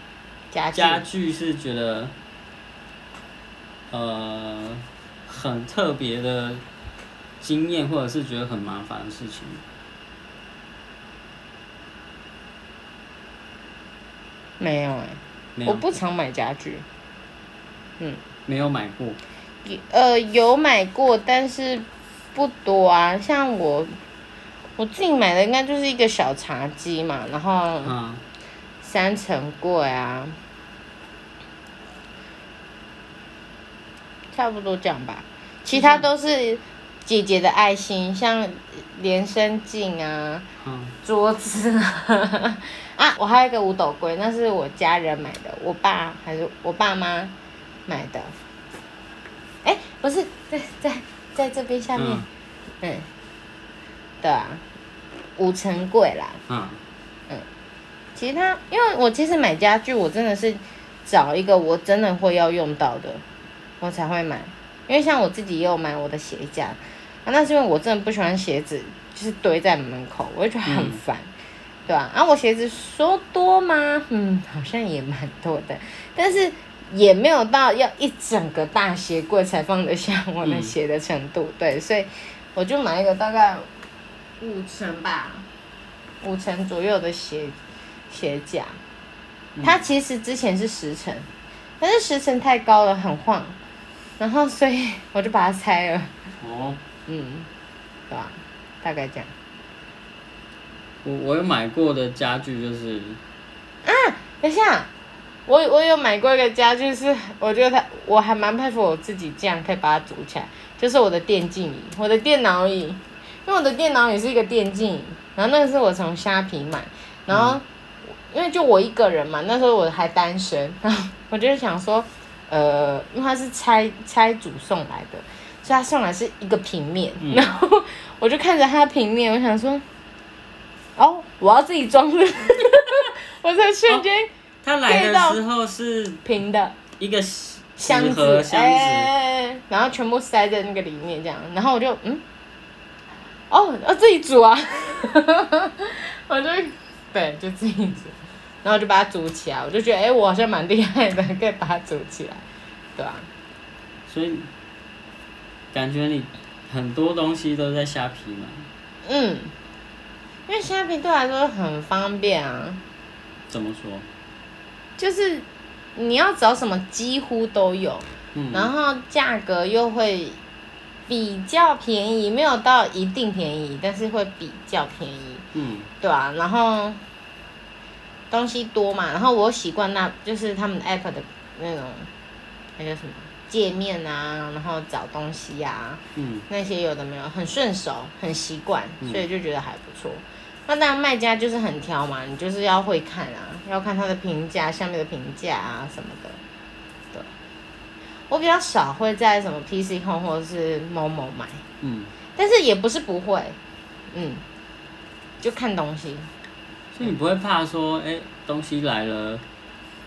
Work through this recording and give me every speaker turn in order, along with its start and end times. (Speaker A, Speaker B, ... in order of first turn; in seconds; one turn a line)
Speaker A: 0.5-1.1
Speaker B: 0.7-2.1
Speaker B: 3.9-6.6
Speaker B: 7.4-9.6
Speaker A: 14.6-16.9
Speaker B: 15.6-15.9
Speaker B: 18.5-19.2
Speaker A: 19.6-23.9
Speaker A: 24.8-27.9
Speaker B: 27.9-28.2
Speaker A: 28.8-30.4
Speaker A: 34.3-40.5
Speaker B: 35.7-36.1
Speaker B: 40.6-41.0
Speaker A: 41.0-47.3
Speaker A: 47.9-48.3
Speaker A: 49.6-52.3
Speaker B: 52.0-52.3
Speaker A: 52.8-53.1
Speaker A: 54.2-54.6
Speaker A: 55.4-56.4
Speaker B: 56.5-56.8
Speaker A: 58.2-63.2
Speaker A: 63.8-71.3
Speaker B: 70.7-71.0
Speaker A: 71.9-83.7
Speaker B: 80.4-80.7
Speaker A: 84.4-85.5
Speaker A: 86.2-87.6
Speaker A: 88.1-88.8
Speaker B: 89.5-89.9
Speaker A: 89.6-91.3
Speaker A: 91.8-93.6
Speaker A: 94.2-96.1
Speaker B: 96.4-96.8
Speaker A: 97.1-97.5
Speaker A: 98.1-99.3
Speaker B: 101.0-103.2
Speaker A: 103.8-104.9
Speaker A: 105.5-129.8
Speaker B: 117.3-117.6
Speaker B: 127.2-127.5
Speaker A: 131.0-134.3
Speaker B: 134.6-136.3
Speaker A: 134.9-135.4
Speaker A: 136.2-136.8
Speaker B: 137.0-139.1
Speaker A: 137.8-142.2
Speaker A: 143.5-153.3
Speaker B: 154.1-154.5
Speaker B: 155.7-158.7
Speaker A: 159.1-159.5
Speaker A: 160.5-162.8
Speaker B: 163.5-164.1
Speaker A: 165.0-170.4
Speaker B: 168.3-168.7
Speaker A: 171.1-175.4
Speaker B: 175.5-175.9
Speaker A: 176.0-177.0
Speaker A: 178.3-182.1
Speaker A: 182.8-196.4
Speaker B: 186.2-186.5
Speaker A: 198.3-201.6
Speaker B: 201.8-202.1
Speaker A: 202.3-203.6
Speaker A: 204.1-204.4
Speaker A: 205.4-206.3
Speaker B: 206.9-209.4